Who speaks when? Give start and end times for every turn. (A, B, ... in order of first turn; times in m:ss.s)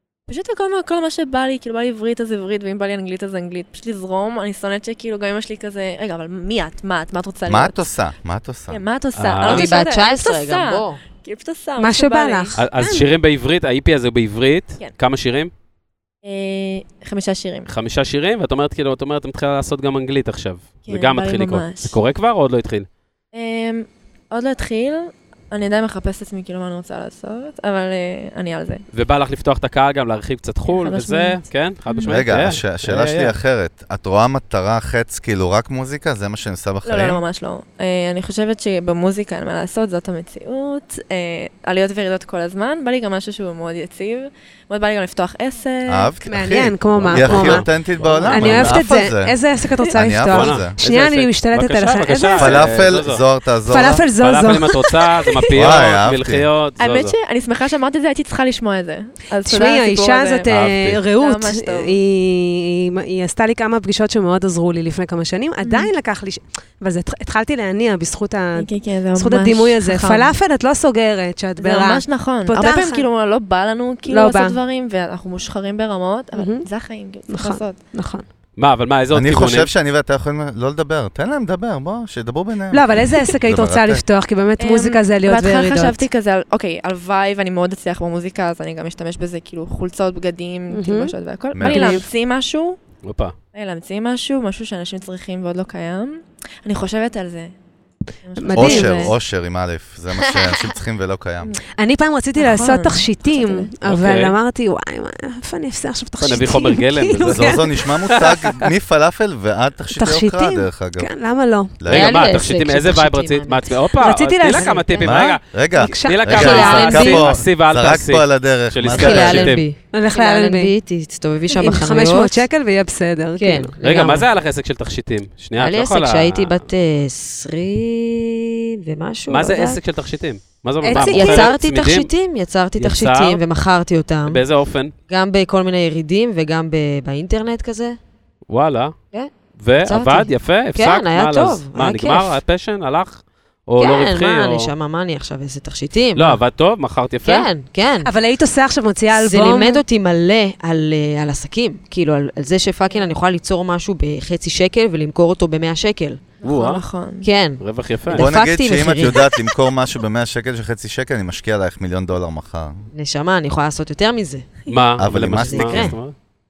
0:00.3-0:07.8 A
0:07.5-0:08.8 B
0:08.7-0:12.6 A
0:09.2-0:09.7 C
0:09.4-0:11.0 D
0:11.8-0:13.1 E
0:12.6-0:15.5 C
0:16.2-0:17.7 A
0:17.7-0:22.9 C
0:20.9-0:22.0 A
0:23.3-0:28.8 A
0:28.9-0:33.4 C
0:30.7-0:32.2 A
0:32.0-0:37.2 B
0:36.8-0:46.1 A
0:45.9-0:49.4 B
0:46.3-0:47.7 E
0:46.9-0:48.8 C
0:48.3-0:52.8 E
0:49.9-0:50.8 B
0:50.3-0:53.2 C
0:52.4-0:54.0 B
0:53.7-0:55.5 E
0:54.2-0:57.2 C
0:55.5-0:56.5 B
0:56.8-1:00.5 A
0:59.4-1:13.1 E
1:00.5-1:01.0 C
1:01.2-1:02.0 A
1:05.6-1:05.9 A
1:08.6-1:10.4 A
1:11.6-1:17.8 A
1:14.1-1:14.6 E
1:16.4-1:16.7 E
1:17.3-1:18.3 E
1:18.6-1:19.7 C
1:19.1-1:24.0 B
1:22.7-1:26.1 E
1:24.6-1:32.8 A
1:30.7-1:32.1 E
1:31.5-1:32.0 B
1:33.0-1:33.3 C
1:33.5-1:37.5 A
1:38.2-1:39.2 A
1:38.4-1:39.1 E
1:38.6-1:41.5 B
1:40.2-1:40.8 D
1:41.8-1:48.2 E
1:42.4-1:43.7 A
1:43.9-1:44.4 C
1:46.2-1:48.5 C
1:47.2-1:51.1 B
1:50.0-1:51.8 E
1:51.8-1:52.1 B
1:51.9-1:53.8 D
1:51.9-1:59.6 C
1:54.0-1:57.2 E
1:54.5-1:54.9 D
1:55.0-1:59.6 B
1:56.3-1:57.3 D
1:58.9-2:02.4 D
1:59.9-2:00.7 E
2:01.5-2:03.8 E
2:03.4-2:04.3 D
2:03.8-2:06.6 C
2:05.6-2:09.8 D
2:09.3-2:12.1 C
2:10.8-2:11.6 E
2:10.9-2:14.4 D
2:12.8-2:13.4 C
2:14.3-2:14.9 C
2:15.1-2:18.0 D
2:18.5-2:19.0 C
2:19.6-2:24.7 C
2:19.8-2:22.4 D
2:23.8-2:26.4 D
2:26.2-2:27.5 C
2:27.2-2:28.1 D
2:28.0-2:29.8 E
2:29.1-2:36.2 D
2:36.4-2:37.3 A
2:36.4-2:36.8 C
2:37.2-2:39.4 D
2:37.6-2:38.3 C
2:38.1-2:42.9 B
2:42.9-2:44.5 D
2:44.7-2:46.1 C
2:45.0-2:46.0 B
2:45.3-2:46.0 D